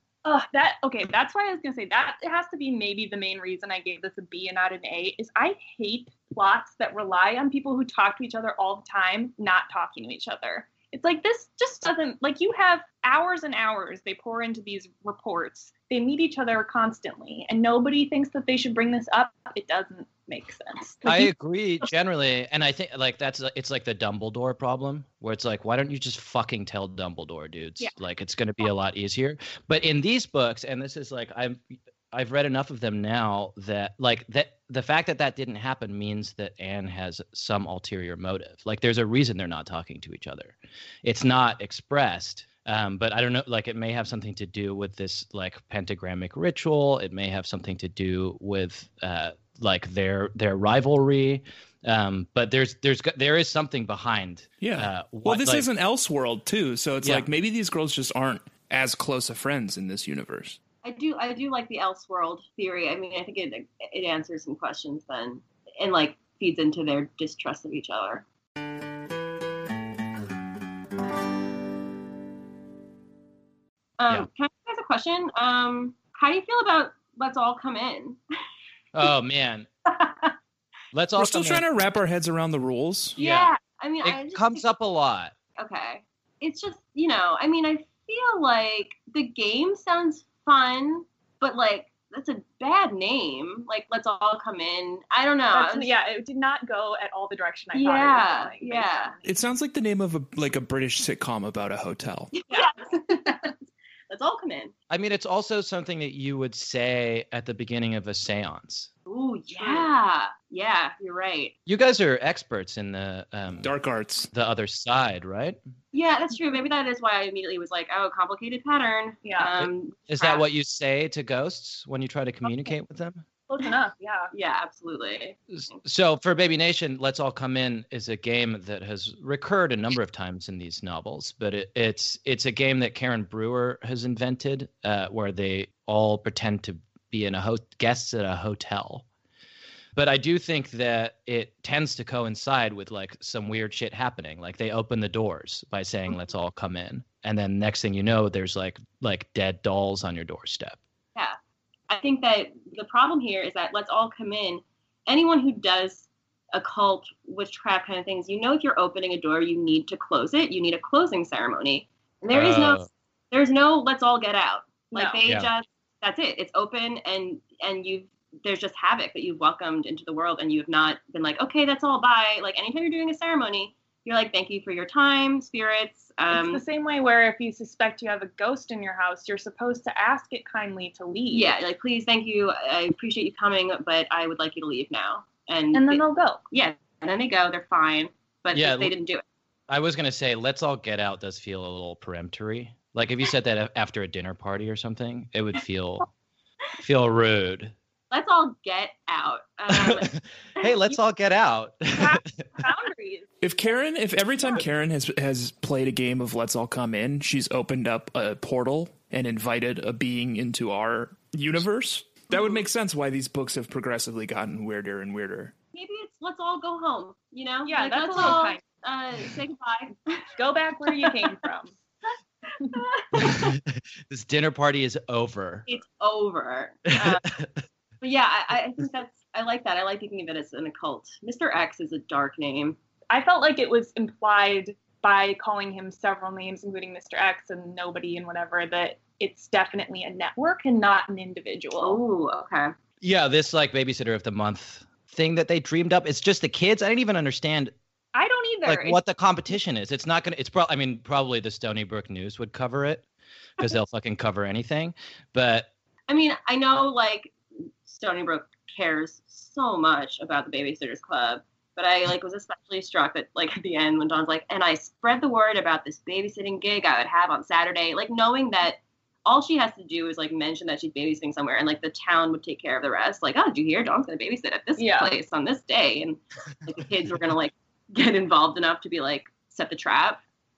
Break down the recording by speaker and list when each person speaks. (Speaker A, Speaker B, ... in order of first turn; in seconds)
Speaker A: 0.2-21.3, 95.5-99.3, 102.5-103.5, 109.5-109.9, 119.2-119.5, 123.5-124.3, 164.9-165.2, 176.3-181.5, 185.7-186.4, 201.9-203.3, 217.6-218.6, 220.4-221.7, 233.1-242.0, 248.1-249.0, 274.8-275.1
Speaker B: 21.0-55.7, 57.0-57.3, 78.9-79.7, 80.9-81.6, 83.2-85.3, 104.9-108.9, 111.7-113.7, 114.3-115.6, 119.6-123.2, 125.5-139.0, 139.9-150.8, 162.3-162.9, 165.2-165.5, 188.5-188.9, 189.7-196.1, 196.8-197.7, 199.7-200.0, 200.6-202.4, 224.1-225.7, 243.0-247.7, 248.6-253.0, 253.6-255.7
Speaker C: 54.6-60.6, 81.2-83.2, 99.3-102.3, 113.6-114.3, 203.4-215.5
Speaker D: 60.8-68.2, 74.0-78.2, 80.0-80.2, 83.2-84.7, 85.6-95.9, 97.7-99.2, 102.3-103.5, 104.1-104.7, 109.1-111.5, 115.9-120.4, 124.3-125.4, 151.9-176.6, 181.3-189.2, 198.1-200.7, 215.7-220.3, 220.8-221.4, 222.6-223.6, 225.7-227.3, 228.0-232.8, 241.8-242.7, 256.1-280.2